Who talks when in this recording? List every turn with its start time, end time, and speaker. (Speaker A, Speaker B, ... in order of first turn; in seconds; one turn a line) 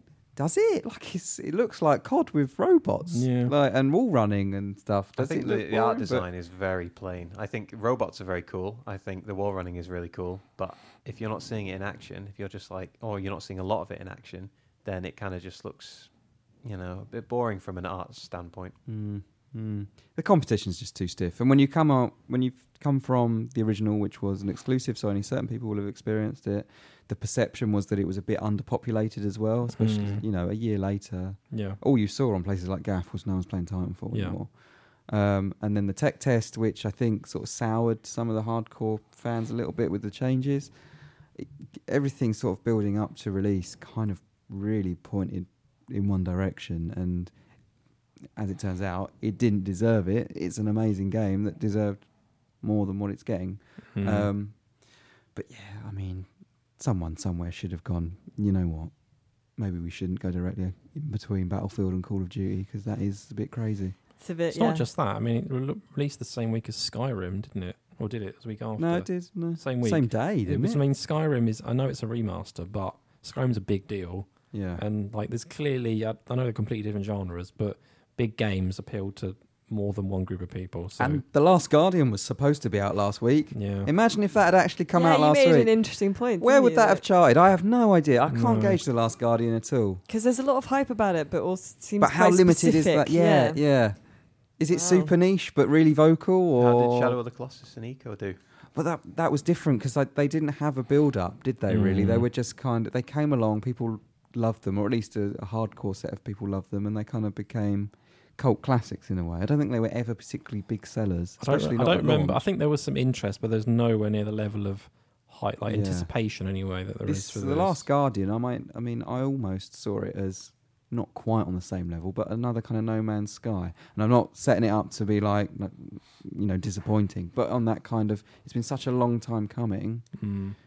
Speaker A: 0.4-6.2
Speaker B: 3.1-3.5
Speaker C: 5.2-16.1
Speaker C: 16.6-18.8
Speaker A: 18.9-34.5
Speaker B: 29.7-30.2
Speaker B: 31.5-31.8
Speaker B: 34.1-34.4
Speaker A: 35.0-40.7
Speaker A: 41.4-47.3
Speaker A: 48.4-52.0
Speaker A: 52.6-54.5
Speaker B: 54.0-54.3
Speaker A: 55.3-58.9
Speaker A: 59.6-64.0
Speaker D: 64.2-64.9
Speaker B: 64.5-81.2
Speaker A: 68.8-70.8
Speaker A: 74.5-74.8
Speaker A: 81.0-90.0
Speaker B: 83.5-83.9
Speaker D: 84.9-87.0
Speaker B: 88.3-88.8
Speaker D: 90.1-93.6
Speaker A: 92.0-94.0
Speaker A: 94.6-97.2
Speaker D: 94.7-95.1
Speaker C: 96.6-98.4
Speaker A: 98.7-112.5
Speaker B: 101.7-102.3
Speaker B: 111.4-117.8
Speaker A: 115.7-116.1
Speaker A: 117.1-130.1
Speaker B: 130.2-130.6